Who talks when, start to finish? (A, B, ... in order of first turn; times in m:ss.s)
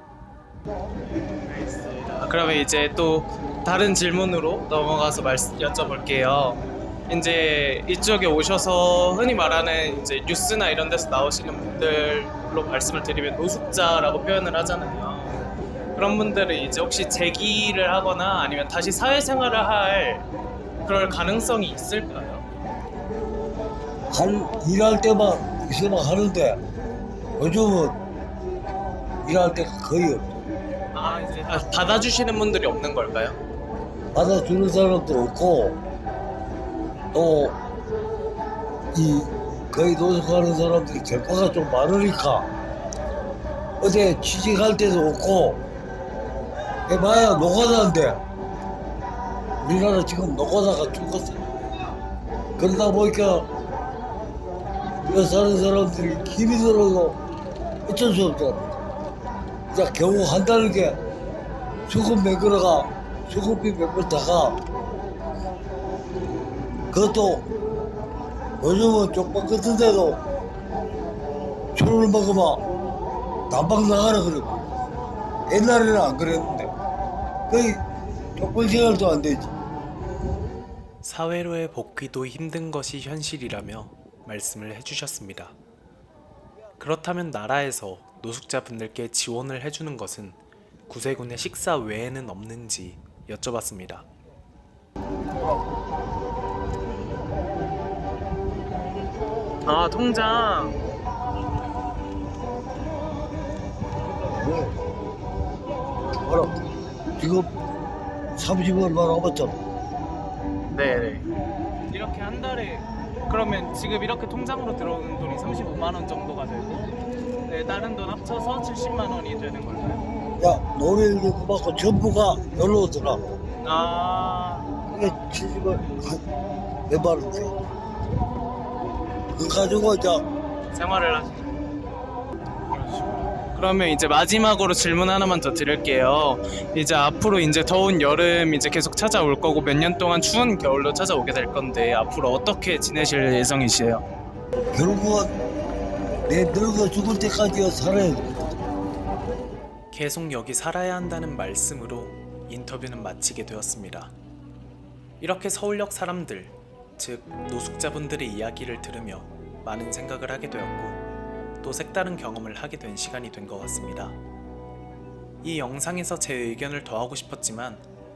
0:01.4-0:20.2 A
0:20.8-0:22.4 A
0:24.1-0:26.6 B
0:27.4-0:28.0 B
0:29.2-0:30.4 B
0:30.9-0:33.4 A
0:34.1-0:35.8 B
0:37.1-0:37.6 B
0:38.9-0:42.5 B
0:43.8-0:45.6 B
0:46.9-0:48.2 B
0:49.6-0:51.5 B
0:52.6-0:53.5 B
0:55.0-0:57.2 B
0:57.8-0:58.8 B
0:59.7-1:01.0 B
1:01.9-1:04.6 B
1:06.9-1:07.4 B
1:08.6-1:10.2 B
1:11.8-1:12.6 B
1:13.5-1:14.6 B
1:15.5-1:16.7 B
1:17.5-1:17.8 B
1:18.4-1:19.5 B
1:21.0-1:25.6 C
1:26.8-1:34.1 C
1:39.6-1:40.8 A
1:44.2-1:44.7 B
1:46.2-1:46.6 B
1:47.2-1:47.5 B
1:48.4-1:49.6 B
1:50.7-1:51.2 A
1:51.9-1:56.9 A
1:57.5-2:00.0 A
2:00.4-2:03.2 B
2:03.6-2:05.0 A
2:04.9-2:06.2 B
2:06.9-2:07.6 B
2:09.3-2:10.2 B
2:10.7-2:11.5 A
2:12.7-2:24.0 A
2:24.7-2:25.3 B
2:26.3-2:28.3 B
2:29.9-2:34.1 C
2:35.2-2:41.0 C
2:41.6-2:44.2 C
2:45.4-2:47.8 C